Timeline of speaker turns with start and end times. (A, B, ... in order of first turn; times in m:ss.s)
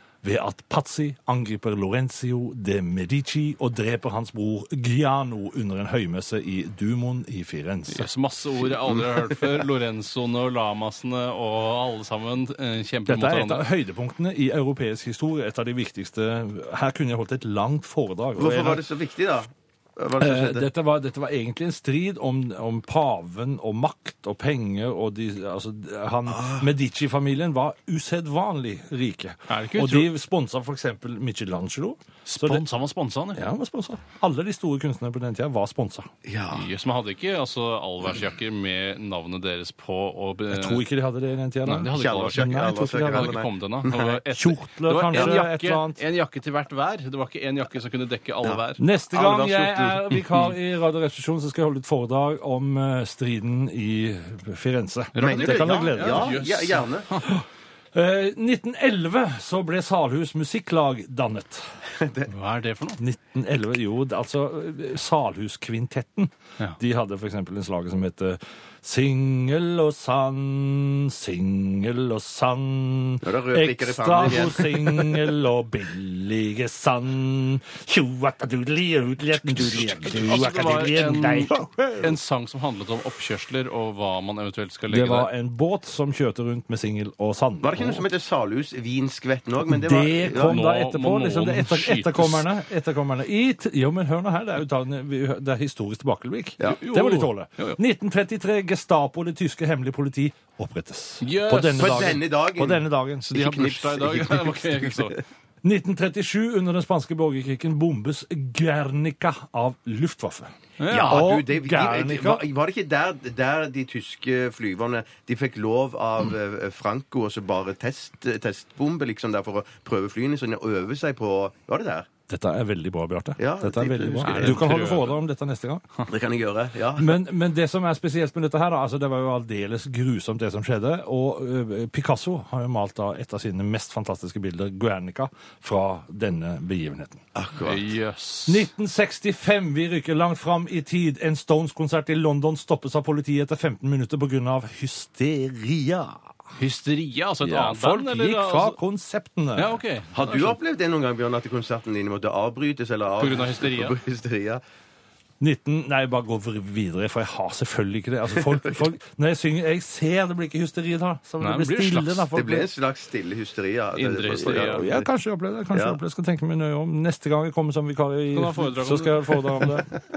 0:00.2-0:08.1 A
0:07.9-0:13.7 B
0:08.8-0:09.4 C
0:13.1-0:18.8 A
0:18.4-0:20.7 C
0:20.2-0:32.6 A
0:26.3-0:26.6 C
0:29.5-0:30.1 B
0:32.3-0:33.4 B
0:33.4-0:36.1 A
0:36.2-0:36.7 C
0:36.5-0:40.8 B
0:40.5-0:43.4 A
0:41.6-0:50.5 B
0:41.9-0:44.2 C
0:44.3-0:46.0 A
0:48.8-0:56.4 A
0:55.2-0:57.3 B
0:55.2-0:57.1 C
0:57.2-1:01.8 A
1:02.0-1:02.3 C
1:02.3-1:03.0 B
1:03.0-1:22.2 A
1:13.2-1:15.3 C
1:20.0-1:25.3 B
1:24.9-1:28.0 A
1:27.6-1:30.6 C
1:29.6-1:43.3 A
1:30.4-1:32.5 B
1:36.7-1:37.8 B
1:41.2-1:42.2 B
1:41.8-1:45.1 C
1:43.2-1:45.2 B
1:45.6-1:52.4 A
1:50.8-1:51.3 B
1:50.9-2:02.1 C
2:02.3-2:05.8 A
2:03.4-2:04.7 C
2:04.2-2:05.2 B
2:06.1-2:07.2 C
2:07.0-2:17.2 A
2:17.4-2:17.9 C
2:17.6-2:18.7 B
2:18.5-2:26.3 A
2:26.6-2:28.8 B
2:27.4-2:29.8 A
2:29.6-2:30.6 B
2:30.2-2:34.6 C
2:33.2-2:34.0 B
2:35.4-2:42.7 A
2:41.4-2:42.3 B
2:42.3-2:45.1 C
2:44.0-2:44.9 B
2:44.4-2:49.9 A
2:45.7-2:46.0 C
2:48.3-2:49.7 B